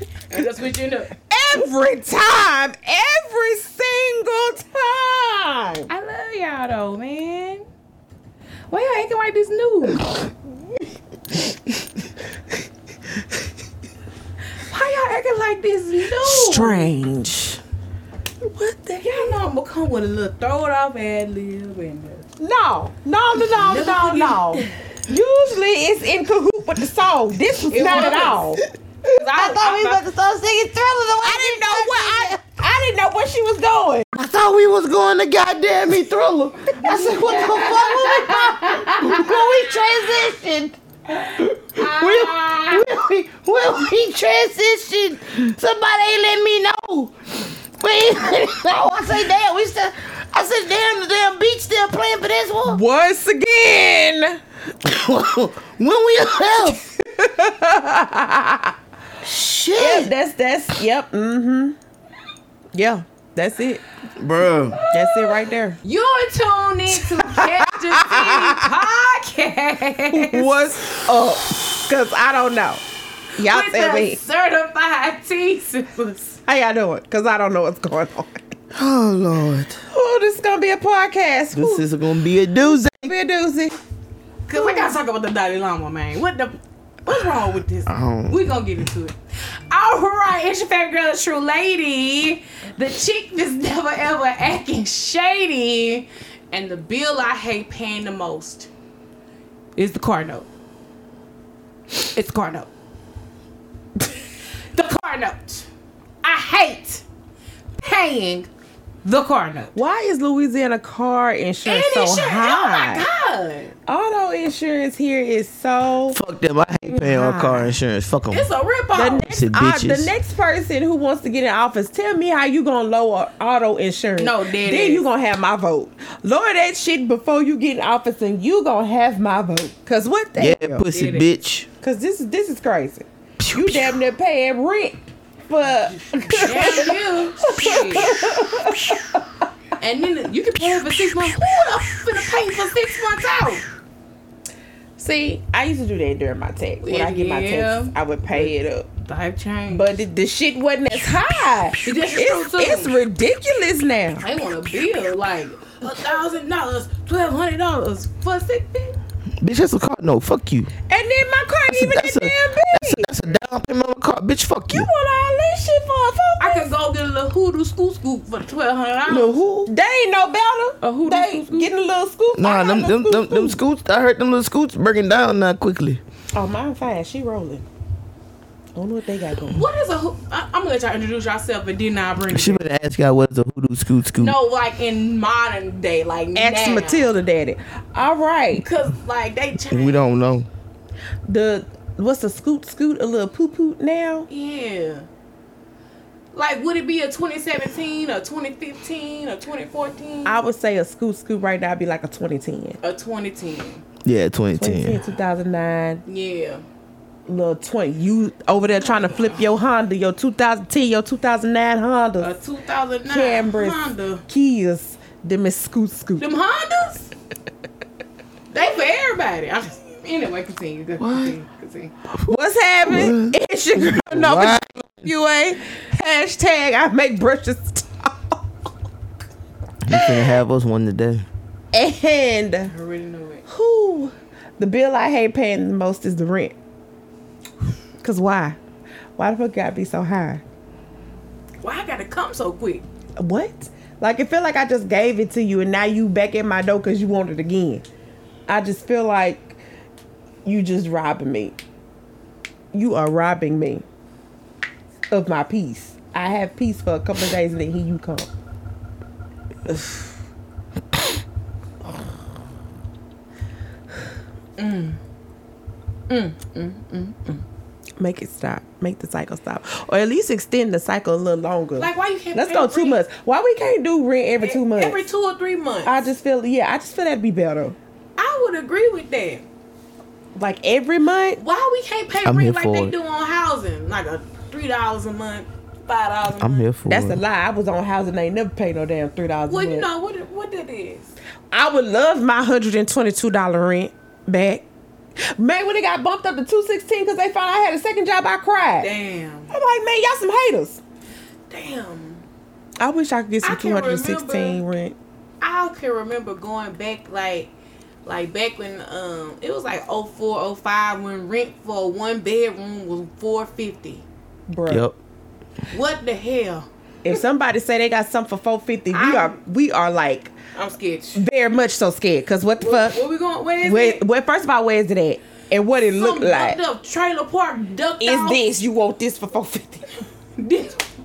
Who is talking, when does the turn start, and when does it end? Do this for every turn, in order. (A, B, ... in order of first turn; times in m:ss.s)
0:00.3-0:01.1 A
0:01.3-0:05.9 B
0:05.9-0:07.6 A
0:08.7-0:10.0 A
0:14.7-0:16.9 A
0:16.2-0:17.6 B
0:18.4-0:19.4 B
0:19.0-0:22.2 A
0:22.4-0:28.6 B
0:23.6-0:24.7 A
0:27.7-0:28.5 A
0:29.1-0:30.0 A
0:29.4-0:32.4 C
0:31.2-0:34.1 B
0:34.1-0:40.8 C
0:36.8-0:39.2 A
0:39.0-0:40.3 B
0:41.4-0:47.1 C
0:41.8-0:42.8 A
0:47.8-0:52.8 C
0:52.6-0:54.4 B
0:54.8-0:56.8 C
0:56.4-0:58.7 B
0:59.2-1:00.1 C
0:59.8-1:01.8 B
1:02.7-1:03.8 B
1:04.2-1:04.8 C
1:04.7-1:10.4 A
1:04.9-1:05.8 B
1:06.9-1:08.6 B
1:10.1-1:12.8 B
1:13.4-1:14.2 B
1:13.4-1:16.4 A
1:16.4-1:18.4 B
1:18.7-1:19.8 C
1:19.9-1:21.9 B
1:21.5-1:23.1 C
1:22.7-1:23.8 B
1:24.5-1:29.2 A
1:24.5-1:24.9 B
1:27.8-1:28.5 C
1:29.7-1:38.7 A
1:39.8-1:40.5 A
1:42.1-1:42.7 A
1:44.7-1:45.7 A
1:46.2-1:47.0 A
1:47.8-1:48.5 A
1:49.0-1:49.7 A
1:49.7-1:53.0 B
1:51.6-1:53.7 A
1:53.9-1:56.2 B
1:56.1-1:58.5 C
1:57.0-1:57.7 B
1:58.3-1:59.3 A
1:58.9-2:10.8 B
1:59.3-2:00.1 C
2:04.2-2:05.0 A
2:10.4-2:11.7 C
2:10.9-2:11.3 A
2:11.8-2:19.2 B
2:13.4-2:14.0 C
2:16.3-2:18.2 A
2:17.6-2:18.8 C
2:19.8-2:23.6 A
2:25.0-2:28.9 B
2:26.8-2:29.9 A
2:29.7-2:34.2 B
2:31.8-2:33.0 A
2:34.2-2:38.9 A
2:39.4-2:40.7 C
2:40.9-2:43.1 B
2:41.7-2:44.9 C
2:44.7-2:46.7 B
2:46.4-2:49.3 A
2:49.0-2:49.7 C
2:49.6-2:53.6 B
2:50.8-2:51.7 A
2:52.3-2:56.0 C
2:56.3-2:57.6 B
2:58.8-2:59.6 B
2:59.5-3:02.6 A
3:02.3-3:04.4 C
3:04.2-3:07.1 A
3:06.3-3:08.6 B
3:08.6-3:10.0 A
3:09.7-3:10.5 C
3:11.2-3:14.3 B
3:14.3-3:15.1 A
3:16.3-3:20.4 A
3:20.2-3:22.8 B
3:22.8-3:23.8 A
3:24.0-3:25.0 C
3:24.5-3:26.0 B
3:26.0-3:26.6 A
3:27.3-3:32.3 B
3:28.8-3:29.4 A
3:32.2-3:34.2 A
3:33.1-3:36.2 B
3:36.2-3:37.1 A
3:38.5-3:41.9 A
3:41.0-3:41.3 C
3:42.2-3:48.4 B
3:42.8-3:45.1 C
3:49.8-3:51.2 C
3:49.9-3:50.3 B
3:51.7-3:52.7 B
3:52.7-3:53.4 A
3:53.5-3:56.5 B
3:58.0-3:58.6 B
3:59.2-4:00.4 B
4:01.6-4:02.8 A
4:03.2-4:07.8 B
4:08.5-4:09.6 B
4:10.4-4:11.6 B
4:12.7-4:13.8 B
4:15.1-4:18.3 B
4:24.6-4:25.0 A
4:26.1-4:27.4 A
4:28.0-4:35.0 B
4:31.8-4:33.0 A
4:34.4-4:36.1 A
4:35.8-4:37.8 B
4:38.2-4:39.4 A
4:40.3-4:41.4 B
4:41.4-4:46.6 A
4:42.2-4:42.9 C
4:46.4-4:47.2 C
4:46.9-4:49.9 B
4:49.5-4:51.1 A
4:51.5-4:54.6 B
4:55.3-4:58.9 B
4:58.8-4:59.5 A
4:59.5-5:00.8 B
5:01.5-5:02.2 A
5:02.8-5:04.9 B
5:03.4-5:04.6 A
5:05.4-5:07.5 A
5:08.0-5:14.0 A
5:14.5-5:14.8 B
5:14.7-5:15.0 C
5:15.7-5:16.7 A
5:17.0-5:20.3 B
5:18.9-5:19.4 A
5:20.5-5:21.2 A
5:21.1-5:23.0 B
5:22.6-5:24.0 A
5:23.6-5:26.6 B
5:25.8-5:28.4 A
5:28.0-5:29.9 B
5:30.4-5:30.8 A